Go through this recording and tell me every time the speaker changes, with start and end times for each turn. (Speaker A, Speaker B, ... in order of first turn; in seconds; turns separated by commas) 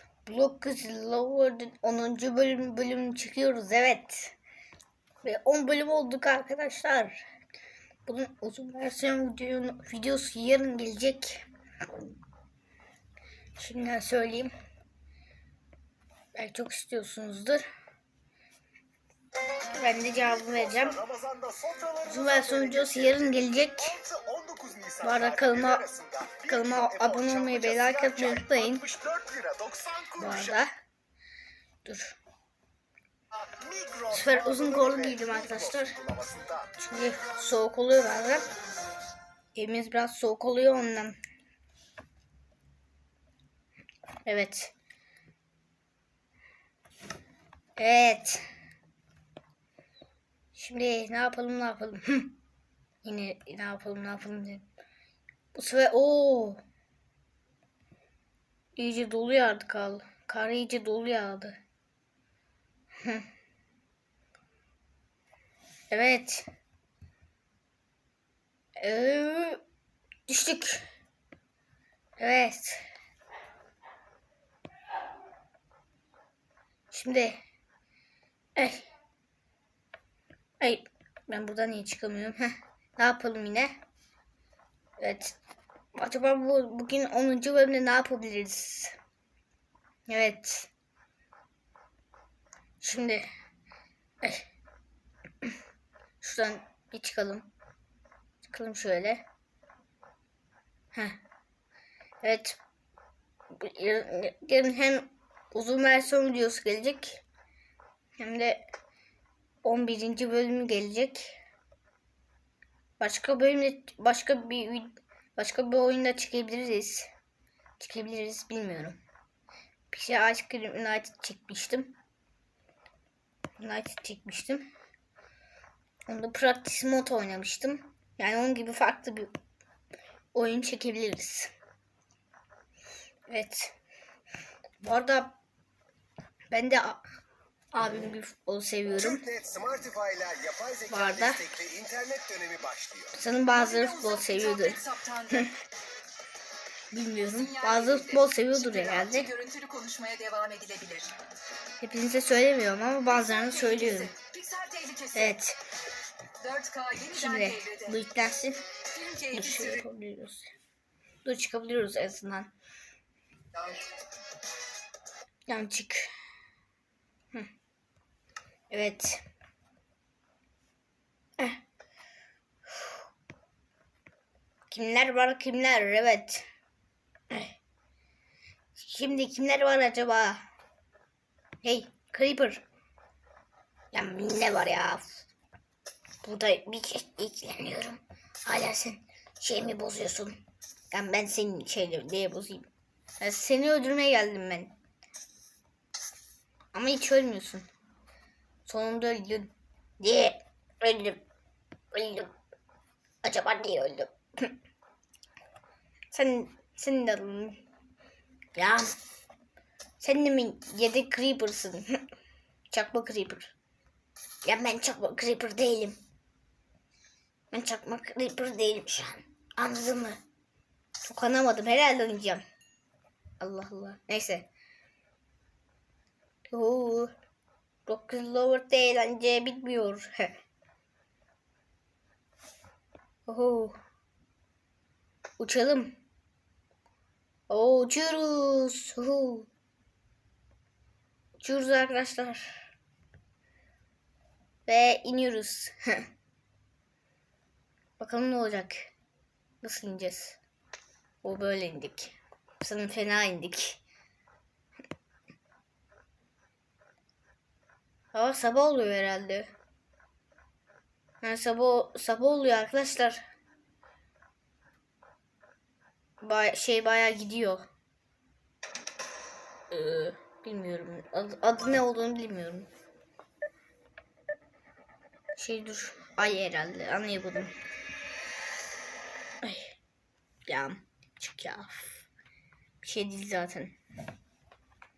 Speaker A: 0.2-4.3, Speaker A: 5.2-7.2, Speaker A: 8.1-11.4, Speaker A: 13.6-14.5, Speaker A: 16.3-17.7, Speaker A: 19.8-21.0, Speaker B: 20.2-30.6, Speaker A: 22.1-24.0, Speaker A: 25.0-25.8, Speaker A: 26.4-28.9, Speaker A: 30.1-30.7, Speaker A: 31.8-32.2, Speaker B: 33.4-36.7, Speaker A: 34.1-36.0, Speaker A: 36.8-38.5, Speaker A: 39.5-41.2, Speaker A: 44.3-44.7, Speaker A: 47.8-48.4, Speaker A: 50.5-52.3, Speaker A: 53.0-54.7, Speaker A: 55.5-56.6, Speaker A: 58.8-61.6, Speaker A: 63.0-63.2, Speaker A: 65.9-66.5, Speaker A: 68.8-69.6, Speaker A: 70.3-70.8, Speaker A: 72.2-72.9, Speaker A: 76.9-77.4, Speaker A: 78.6-78.9, Speaker A: 80.6-83.8, Speaker A: 85.0-85.4, Speaker A: 86.0-89.0, Speaker A: 90.1-90.7, Speaker A: 92.8-93.2, Speaker A: 94.2-94.5, Speaker A: 96.2-97.5, Speaker A: 98.4-99.2, Speaker A: 100.9-101.2, Speaker A: 102.2-102.6, Speaker A: 103.5-107.2, Speaker A: 108.2-108.6, Speaker A: 109.6-111.3, Speaker A: 113.0-117.1, Speaker A: 117.8-119.0, Speaker A: 119.9-122.0, Speaker A: 123.6-124.7, Speaker A: 126.1-129.3, Speaker A: 130.3-131.5, Speaker A: 133.3-133.7, Speaker A: 134.8-135.4, Speaker A: 136.5-137.0, Speaker A: 137.7-139.2, Speaker B: 139.0-143.1, Speaker A: 140.9-141.4, Speaker A: 143.1-145.5, Speaker C: 143.5-145.5, Speaker A: 146.9-149.3, Speaker C: 147.2-151.1, Speaker A: 151.8-154.1, Speaker C: 153.1-155.3, Speaker A: 155.1-155.6, Speaker C: 156.4-157.9, Speaker A: 157.1-158.6, Speaker C: 158.9-159.8, Speaker A: 159.3-160.5, Speaker A: 161.2-162.5, Speaker A: 165.5-166.1, Speaker A: 168.7-169.2, Speaker A: 174.7-176.5, Speaker A: 177.3-177.6, Speaker A: 178.8-180.4, Speaker A: 181.6-182.6, Speaker A: 183.9-185.2, Speaker A: 186.2-190.4, Speaker A: 190.9-192.7, Speaker A: 193.2-194.7, Speaker A: 196.7-197.7, Speaker A: 198.7-201.2, Speaker A: 201.9-202.3, Speaker A: 203.2-204.5, Speaker A: 206.1-207.6, Speaker A: 208.6-208.9, Speaker A: 210.0-212.0, Speaker A: 212.7-213.5, Speaker A: 214.4-216.0, Speaker A: 217.5-220.2, Speaker A: 221.0-222.4, Speaker A: 223.4-224.5, Speaker A: 226.5-227.1, Speaker A: 227.8-230.4, Speaker A: 233.2-233.8, Speaker A: 235.4-236.0, Speaker A: 237.5-239.5, Speaker A: 241.4-242.6, Speaker A: 244.7-246.1, Speaker A: 248.0-248.9, Speaker A: 249.6-250.4, Speaker A: 251.2-253.8, Speaker A: 258.1-259.5, Speaker A: 261.2-263.2, Speaker A: 266.2-267.7, Speaker A: 269.7-272.7, Speaker A: 275.4-277.5, Speaker A: 279.4-279.8, Speaker A: 280.5-282.0, Speaker A: 282.8-283.8